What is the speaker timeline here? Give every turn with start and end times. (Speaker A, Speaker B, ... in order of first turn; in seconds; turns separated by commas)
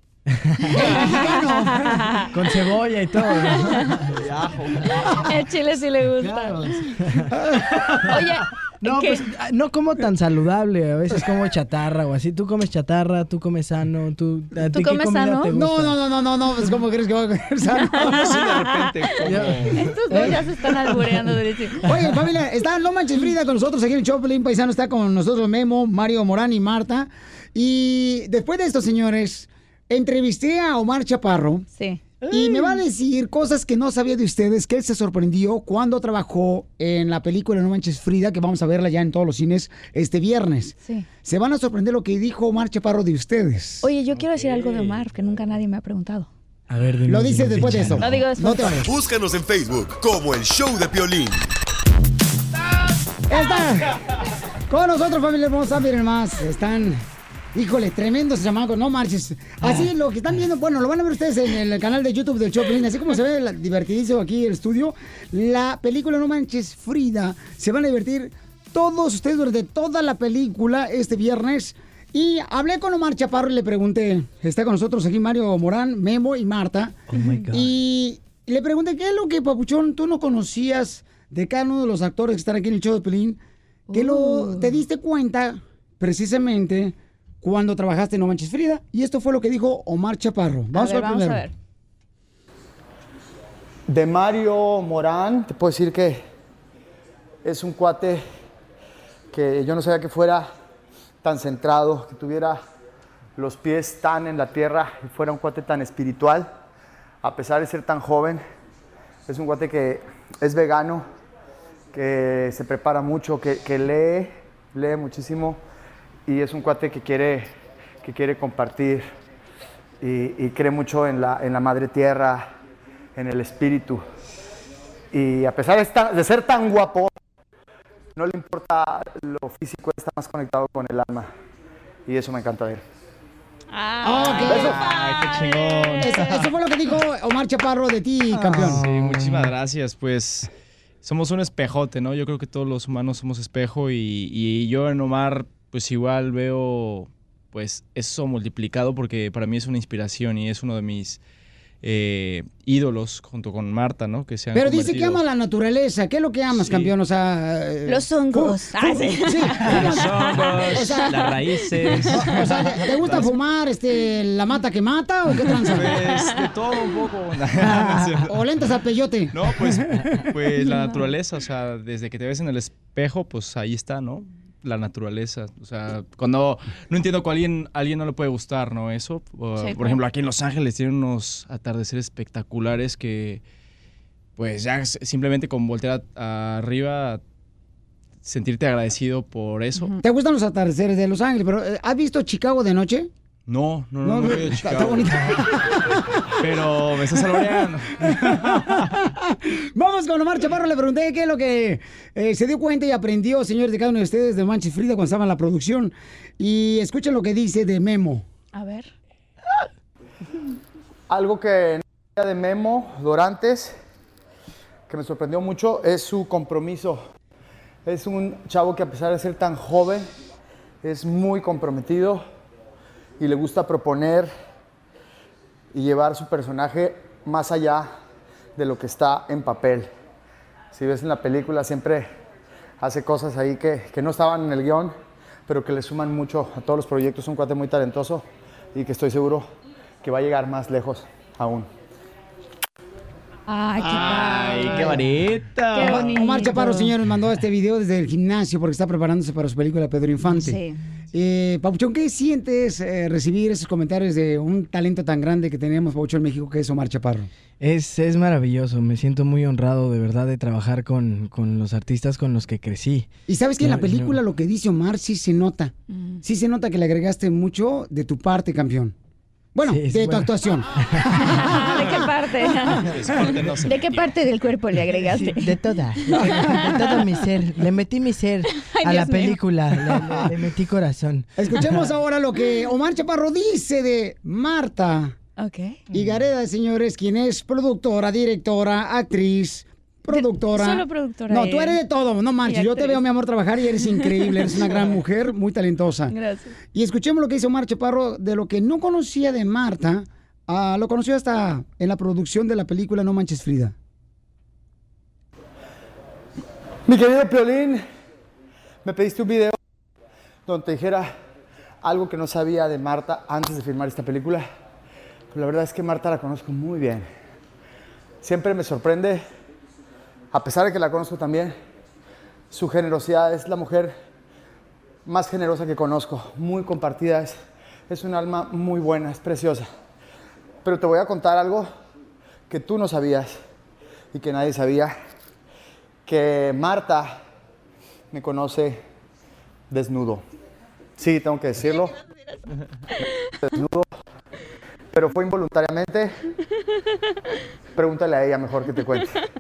Speaker A: 0.5-0.8, Speaker B: 0.7-2.4, Speaker C: 0.7-1.9, Speaker A: 2.3-4.2, Speaker B: 3.2-4.0, Speaker D: 4.1-5.3, Speaker B: 4.9-6.9, Speaker A: 6.2-7.3, Speaker D: 6.5-6.8, Speaker B: 8.1-9.3, Speaker A: 8.8-16.0, Speaker B: 14.6-15.6, Speaker C: 15.5-18.4, Speaker B: 17.9-21.8, Speaker D: 18.1-19.9, Speaker A: 19.2-21.4, Speaker C: 21.9-31.7, Speaker A: 21.9-22.1, Speaker B: 31.7-32.0, Speaker C: 32.3-43.9, Speaker B: 43.8-46.3, Speaker D: 44.1-45.1, Speaker A: 46.7-48.2, Speaker C: 47.1-48.9, Speaker B: 48.0-48.9, Speaker E: 48.8-51.5, Speaker C: 53.3-53.9, Speaker C: 54.7-57.0, Speaker C: 57.5-77.0, Speaker A: 59.6-59.9, Speaker A: 77.1-77.7, Speaker B: 77.1-77.5, Speaker C: 77.5-83.4, Speaker B: 83.9-84.8, Speaker C: 83.9-91.4, Speaker B: 90.7-91.5, Speaker F: 93.9-96.2, Speaker F: 97.4-98.2, Speaker F: 99.3-100.5, Speaker F: 101.2-102.6, Speaker F: 103.4-106.5, Speaker F: 107.2-108.4, Speaker F: 109.3-111.1, Speaker F: 111.9-115.6, Speaker F: 116.3-117.5, Speaker F: 118.0-119.1, Speaker F: 120.0-122.5, Speaker F: 123.2-124.0, Speaker F: 125.1-127.1, Speaker F: 128.2-131.3, Speaker F: 132.1-132.8, Speaker B: 133.7-136.4, Speaker C: 134.0-134.8, Speaker D: 134.5-136.4, Speaker C: 136.0-138.8, Speaker A: 138.4-139.5, Speaker D: 138.6-140.5, Speaker D: 141.0-151.2, Speaker D: 151.8-155.2, Speaker C: 154.6-161.1, Speaker D: 156.5-156.9, Speaker B: 157.9-162.1, Speaker D: 159.6-163.3, Speaker C: 162.1-165.9, Speaker D: 165.7-168.3, Speaker B: 166.1-166.4, Speaker A: 167.7-168.0, Speaker C: 168.3-169.8, Speaker D: 169.3-183.4, Speaker B: 170.6-171.0, Speaker B: 179.6-180.0, Speaker D: 184.4-187.2, Speaker D: 188.2-189.9, Speaker C: 190.0-193.1, Speaker D: 193.5-195.6, Speaker C: 194.0-196.0, Speaker D: 196.4-198.9, Speaker C: 198.1-208.2, Speaker B: 208.5-208.9, Speaker F: 211.1-213.7, Speaker F: 214.9-217.0, Speaker F: 217.9-220.1, Speaker F: 220.8-222.2, Speaker F: 223.2-224.3, Speaker F: 225.7-227.9, Speaker F: 228.6-229.9, Speaker F: 230.7-232.1, Speaker F: 232.8-234.9, Speaker F: 235.5-239.5, Speaker F: 240.0-241.7, Speaker B: 243.5-245.0, Speaker D: 243.8-246.1, Speaker B: 245.7-246.9, Speaker C: 245.8-250.6, Speaker B: 250.3-250.8, Speaker C: 251.1-257.3, Speaker A: 257.6-263.1, Speaker C: 263.3-268.9, Speaker A: 263.6-264.2, Speaker B: 265.9-266.2, Speaker C: 269.6-270.7, Speaker A: 269.7-271.3, Speaker B: 271.1-272.9, Speaker D: 272.8-274.2, Speaker B: 273.6-277.1, Speaker A: 275.1-281.3, Speaker B: 278.5-279.4, Speaker C: 281.4-285.1, Speaker B: 285.4-285.8, Speaker C: 285.9-296.1, Speaker B: 290.1-291.8, Speaker B: 292.4-293.0, Speaker B: 293.8-294.5, Speaker B: 296.1-296.6, Speaker C: 296.7-303.7, Speaker F: 306.9-307.8, Speaker F: 308.8-309.6, Speaker F: 310.5-311.1, Speaker F: 311.8-314.4, Speaker F: 315.3-317.1, Speaker F: 318.2-319.2, Speaker F: 320.3-321.6, Speaker F: 322.5-323.9, Speaker F: 325.1-327.4, Speaker F: 327.9-329.7, Speaker F: 330.6-331.7, Speaker F: 332.5-333.4, Speaker F: 334.1-334.9, Speaker F: 336.1-337.2, Speaker F: 338.1-338.8, Speaker F: 339.7-340.2, Speaker F: 341.0-341.9, Speaker F: 343.4-343.9, Speaker F: 344.9-346.1, Speaker F: 347.8-349.1